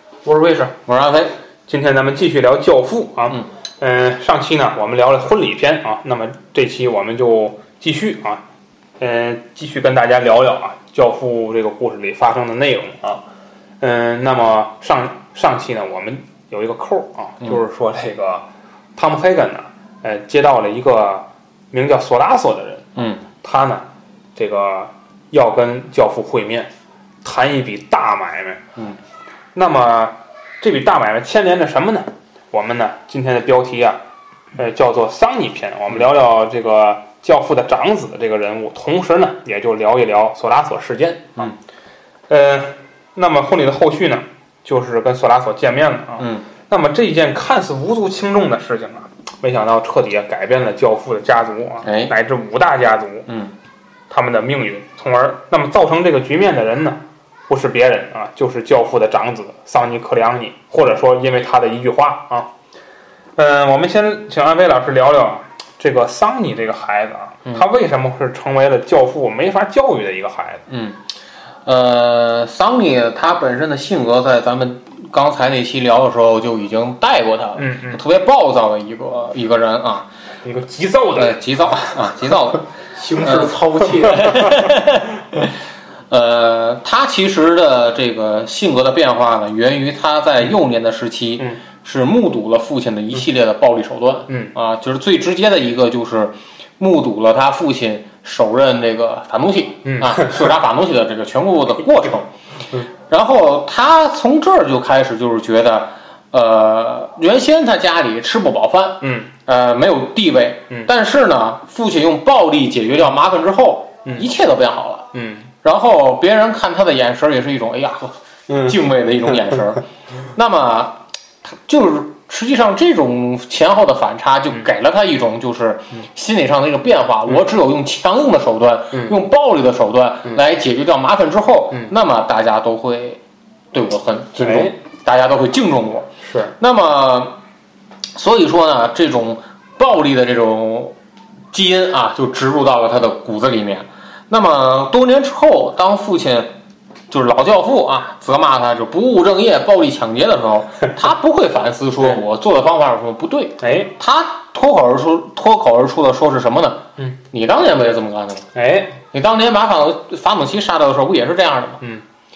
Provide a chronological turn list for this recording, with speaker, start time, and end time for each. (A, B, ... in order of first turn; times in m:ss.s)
0:00.2-0:00.7 A
0:00.9-0:01.3 B
0:01.7-0:08.4 C
0:09.0-0:13.2 C
0:13.8-0:26.7 C
0:23.0-0:23.2 B
0:27.2-0:28.6 C
0:29.6-0:34.0 C
0:34.6-0:41.5 C
0:42.3-0:53.3 C
0:46.2-0:46.4 B
0:51.8-0:52.1 B
0:53.3-0:53.5 B
0:54.1-1:02.5 C
1:03.4-1:10.7 C
1:10.7-1:11.0 B
1:11.6-1:20.1 B
1:17.6-1:18.0 C
1:20.4-1:21.9 C
1:21.2-1:25.6 B
1:23.0-1:24.5 A
1:26.1-1:42.3 B
1:39.8-1:40.4 C
1:41.8-1:42.2 C
1:43.0-1:55.1 B
1:49.0-1:49.3 C
1:55.1-1:55.5 C
1:55.6-2:13.2 B
1:58.5-1:58.8 C
2:13.7-2:17.4 B
2:14.4-2:14.8 C
2:16.2-2:16.5 C
2:18.1-2:21.0 B
2:21.5-2:26.5 B
2:27.1-2:38.5 B
2:33.6-2:33.9 C
2:38.6-2:39.0 C
2:39.1-2:41.8 B